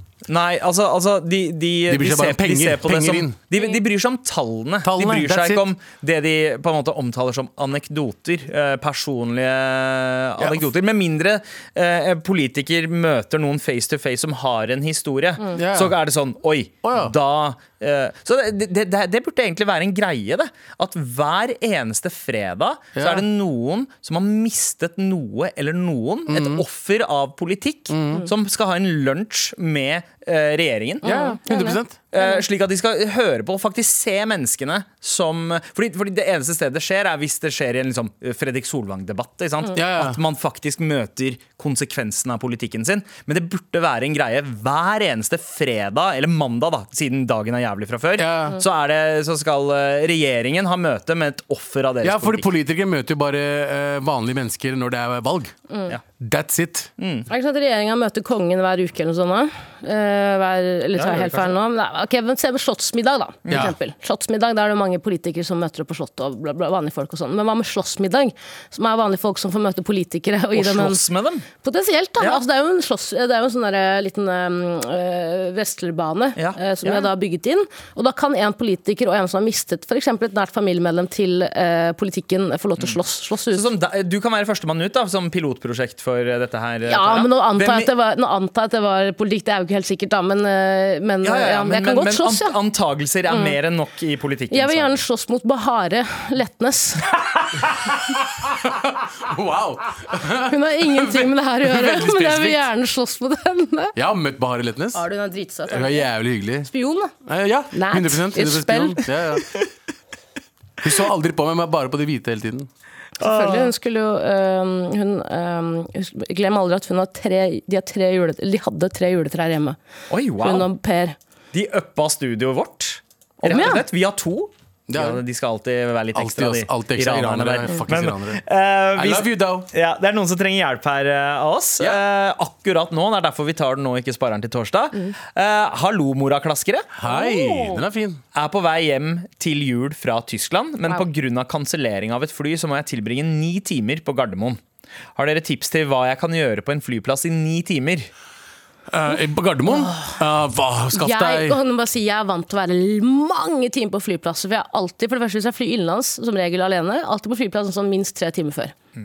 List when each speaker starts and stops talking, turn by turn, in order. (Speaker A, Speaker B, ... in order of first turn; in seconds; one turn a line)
Speaker A: 0.3-31.1
Speaker B: 1.9-3.4
Speaker B: 4.8-5.6
Speaker B: 10.4-10.7
Speaker B: 15.5-16.0
Speaker B: 16.8-17.1
Speaker B: 22.9-23.2
Speaker B: 26.3-26.6
Speaker B: 27.9-28.2
Speaker B: 31.0-32.0
Speaker C: 31.0-32.3
Speaker A: 32.1-52.5
Speaker B: 39.7-40.2
Speaker B: 48.2-48.6
Speaker B: 52.0-55.5
Speaker C: 55.7-56.0
Speaker B: 56.2-56.9
Speaker A: 57.0-57.3
Speaker C: 57.3-71.0
Speaker A: 61.0-61.5
Speaker B: 63.5-63.7
Speaker A: 70.5-71.5
Speaker C: 71.6-83.7
Speaker A: 76.3-77.1
Speaker A: 83.5-87.9
Speaker C: 86.9-92.6
Speaker A: 91.2-95.0
Speaker C: 93.3-93.5
Speaker C: 94.5-97.1
Speaker B: 98.1-102.7
Speaker C: 100.4-103.9
Speaker B: 104.0-105.0
Speaker C: 104.9-106.1
Speaker B: 105.7-106.7
Speaker C: 106.6-107.1
Speaker B: 107.2-109.5
Speaker C: 107.7-109.1
Speaker B: 110.8-112.7
Speaker A: 113.2-113.7
Speaker C: 113.2-119.8
Speaker A: 120.1-120.7
Speaker C: 120.4-121.2
Speaker A: 121.5-136.9
Speaker C: 123.4-123.8
Speaker B: 124.9-125.2
Speaker B: 126.1-128.4
Speaker B: 128.9-129.7
Speaker B: 136.9-138.2
Speaker C: 137.0-137.8
Speaker A: 138.3-144.6
Speaker A: 145.2-148.1
Speaker B: 148.9-151.6
Speaker C: 150.9-158.7